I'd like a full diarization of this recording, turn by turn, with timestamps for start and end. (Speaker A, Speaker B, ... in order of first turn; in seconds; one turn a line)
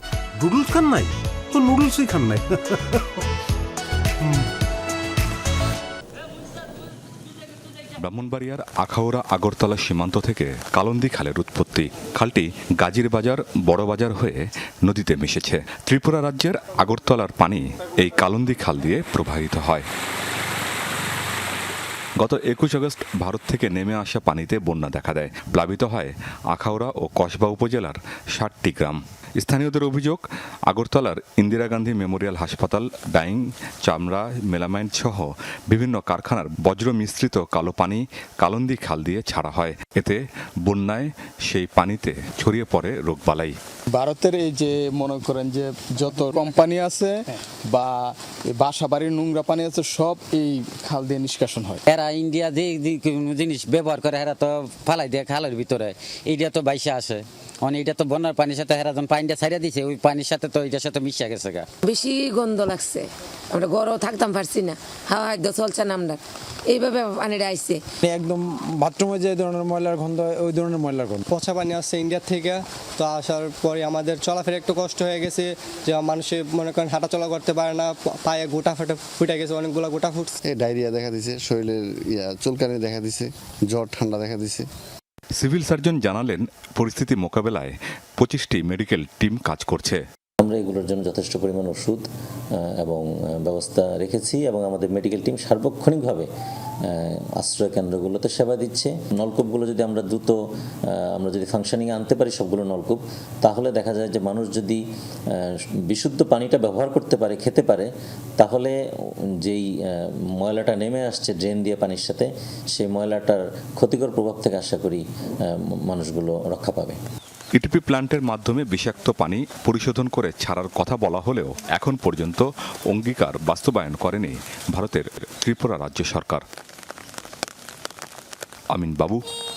Speaker A: 0.4-3.0
Speaker B: 8.0-19.9
Speaker B: 22.2-43.6
Speaker C: 43.9-51.8
Speaker D: 51.9-61.7
Speaker E: 61.8-67.8
Speaker F: 68.1-71.2
Speaker G: 71.3-80.3
Speaker H: 80.4-84.7
Speaker B: 85.3-90.0
Speaker I: 90.4-96.3
Speaker I: 96.8-108.8
Speaker I: 109.4-117.0
Speaker B: 117.6-126.4
Speaker B: 128.7-129.2